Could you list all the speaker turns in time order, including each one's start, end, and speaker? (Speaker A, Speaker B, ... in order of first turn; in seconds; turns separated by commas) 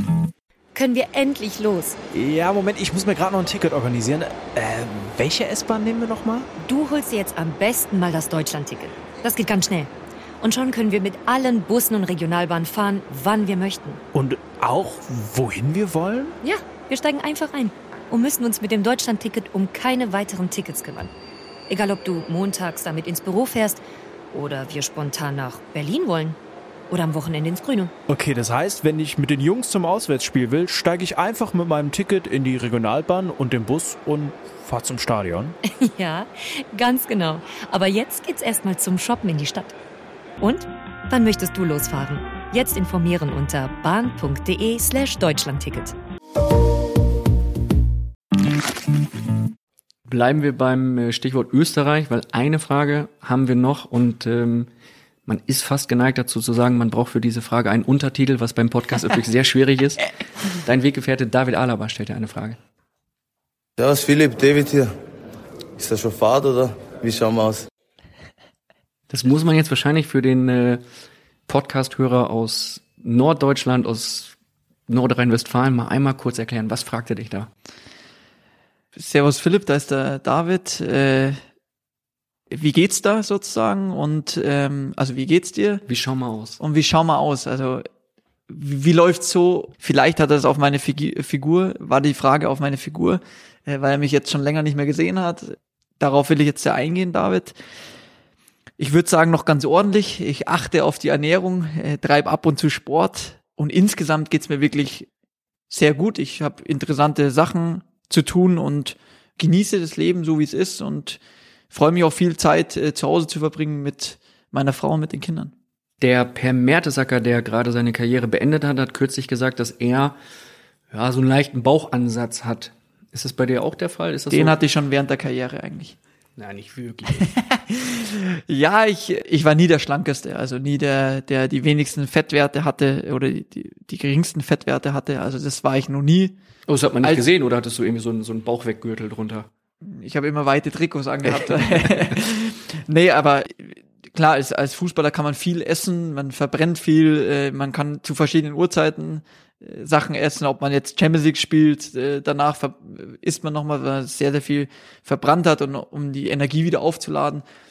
Speaker A: 0.7-2.0, Speaker B: 2.1-6.5, Speaker A: 6.6-14.0, Speaker B: 14.1-16.4, Speaker A: 16.4-21.1, Speaker A: 21.7-23.8, Speaker A: 24.3-26.4, Speaker A: 26.9-27.9, Speaker B: 28.1-35.5, Speaker A: 35.7-39.7, Speaker A: 40.4-45.9, Speaker C: 50.1-54.7, Speaker C: 55.2-62.6, Speaker D: 63.8-64.9, Speaker D: 65.8-67.6, Speaker C: 69.1-70.8, Speaker C: 71.5-74.3, Speaker C: 74.9-77.5, Speaker E: 79.0-81.4, Speaker E: 82.5-85.8, Speaker C: 85.9-86.6, Speaker E: 86.6-87.8, Speaker E: 88.5-97.5, Speaker E: 98.8-105.1, Speaker E: 105.7-111.2, Speaker E: 111.7-115.5, Speaker C: 116.0-120.2, Speaker C: 120.9-124.6, Speaker E: 124.3-126.0, Speaker C: 126.4-127.3, Speaker E: 127.3-136.3, Speaker C: 136.7-139.5, Speaker E: 139.8-157.4, Speaker C: 141.4-142.0